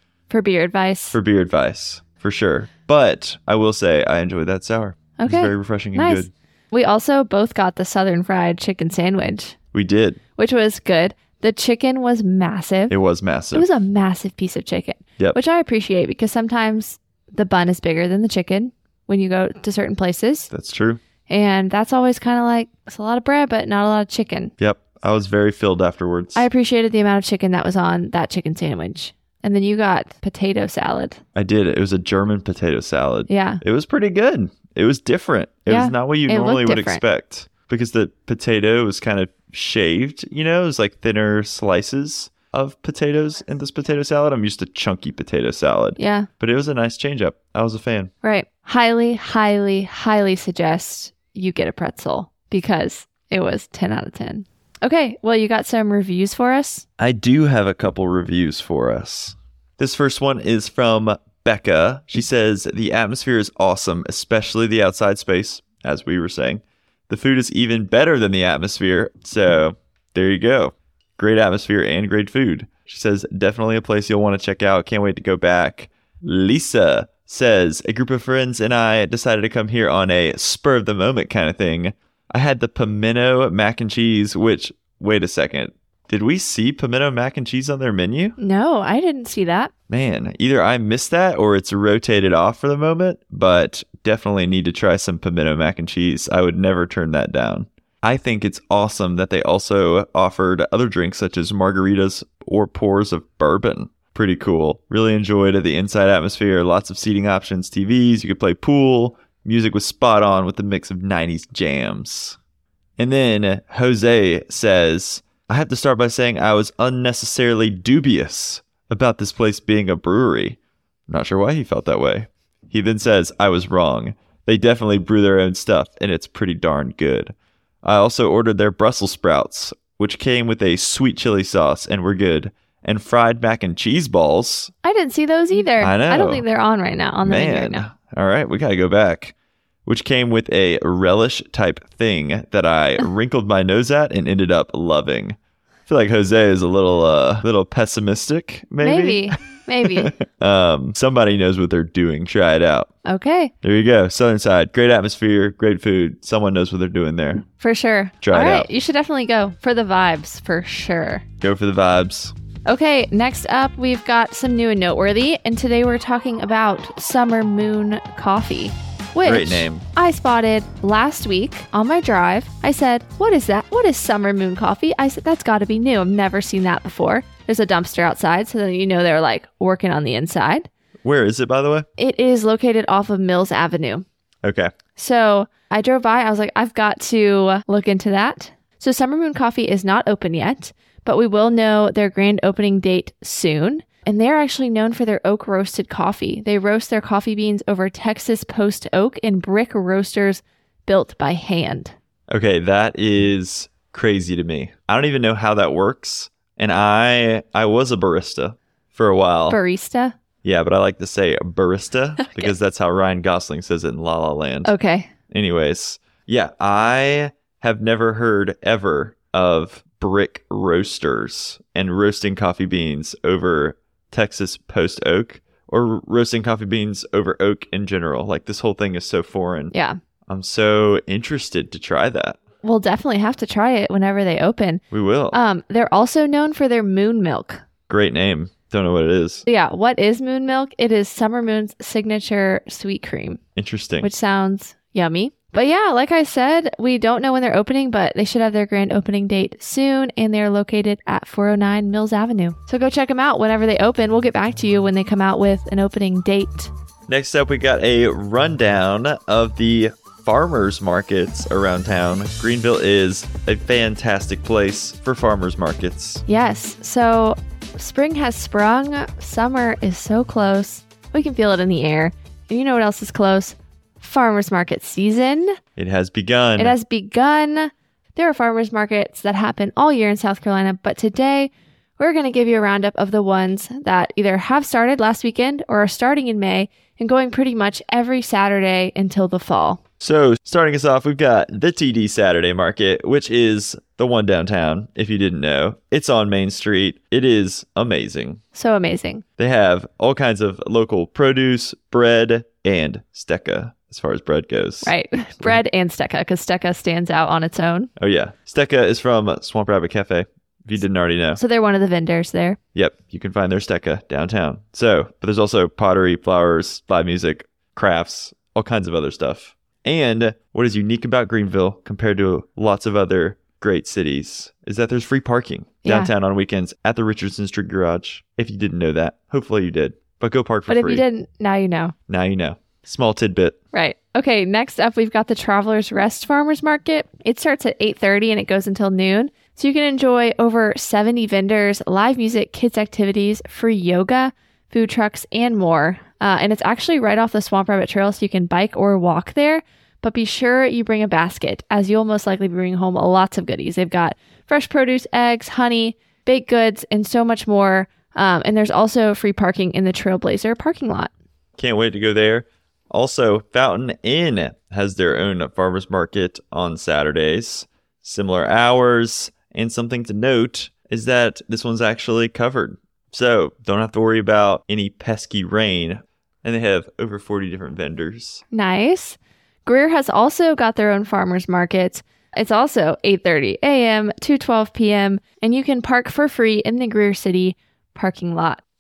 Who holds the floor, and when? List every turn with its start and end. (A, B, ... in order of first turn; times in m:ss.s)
0:00.3-0:01.2 A
0:01.1-0:06.3 B
0:05.2-0:09.6 A
0:09.7-0:10.2 B
0:10.4-0:12.9 A
0:12.9-0:13.7 B
0:13.5-0:20.5 A
0:20.5-0:21.0 B
0:21.3-0:24.5 A
0:24.6-0:26.4 B
0:26.3-0:31.2 A
0:31.3-0:48.1 B
0:33.3-0:33.6 A
0:35.7-0:37.0 A
0:46.0-0:46.3 A
0:48.2-0:56.8 A
0:57.0-1:28.4 B
1:28.4-1:29.7 A
1:29.9-1:52.4 B
1:53.0-2:14.7 B
2:14.8-2:17.8 A
2:15.8-2:16.4 B
2:17.2-2:19.3 B
2:19.8-2:25.4 B
2:25.9-2:32.9 B
2:28.8-2:30.1 A
2:33.0-2:33.5 A
2:33.6-2:37.4 B
2:37.6-2:41.2 A
2:38.2-2:38.7 B
2:41.4-2:42.3 B
2:42.6-3:00.7 A
2:49.2-2:49.8 B
3:01.0-3:01.9 B
3:02.0-3:04.0 A
3:04.4-3:04.7 B
3:05.0-3:21.9 A
3:22.3-3:29.6 B
3:29.5-3:30.2 A
3:30.4-3:34.7 B
3:32.2-3:32.5 A
3:34.6-3:35.1 A
3:35.3-3:49.7 B
3:49.7-3:50.0 A
3:50.3-3:52.4 B
3:52.6-3:57.6 A
3:54.9-3:55.4 B
3:57.9-3:59.4 B
3:59.5-4:03.4 A
4:03.6-4:04.1 B
4:04.0-4:16.7 A
4:17.1-4:26.2 B
4:26.3-4:35.6 A
4:35.8-4:36.8 B
4:36.6-4:49.8 A
4:50.0-4:58.4 B
4:58.5-4:59.2 A
4:59.4-5:05.6 B
5:04.8-5:07.9 A
5:08.0-5:11.4 B
5:11.4-5:12.6 A
5:12.7-5:31.0 B
5:25.8-5:26.1 A
5:30.7-5:31.9 A
5:32.1-5:33.6 B
5:33.7-6:01.1 A
6:01.6-6:18.4 B
6:18.5-6:28.6 A